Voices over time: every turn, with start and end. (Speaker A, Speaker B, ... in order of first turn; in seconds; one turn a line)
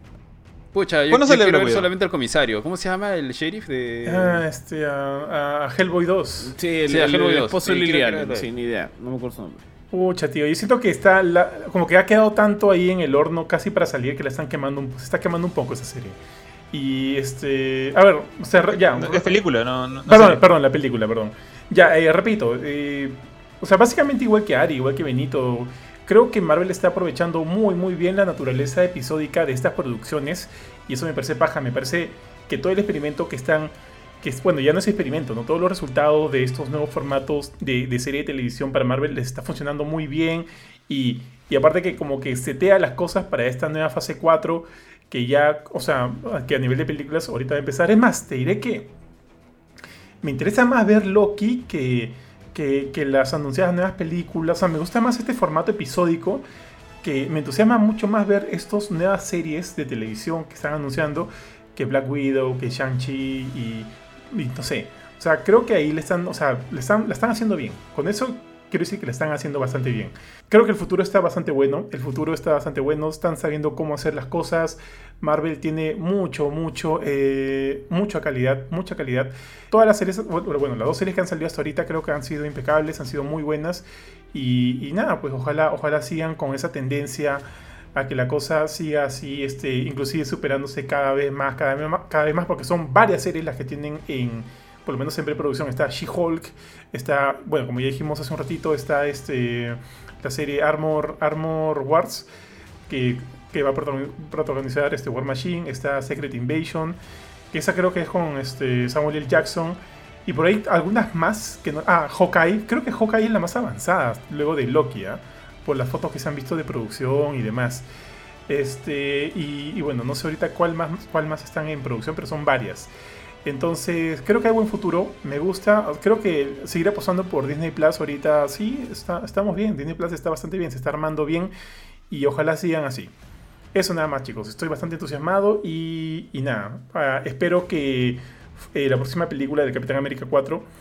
Speaker A: 0.7-4.4
Speaker B: 1.1-1.9
Speaker C: 4.0-6.5
Speaker D: 6.4-9.6
Speaker A: 6.9-8.5
Speaker C: 9.9-16.2
Speaker C: 16.7-19.4
Speaker B: 18.7-20.4
Speaker C: 20.1-48.9
Speaker C: 50.2-56.4
Speaker C: 57.0-87.4
Speaker C: 87.9-102.3
Speaker C: 102.9-107.0
Speaker C: 107.5-117.8
Speaker C: 118.5-122.9
Speaker C: 123.4-131.5
Speaker C: 132.1-133.1
Speaker C: 133.7-138.2
Speaker C: 138.7-140.7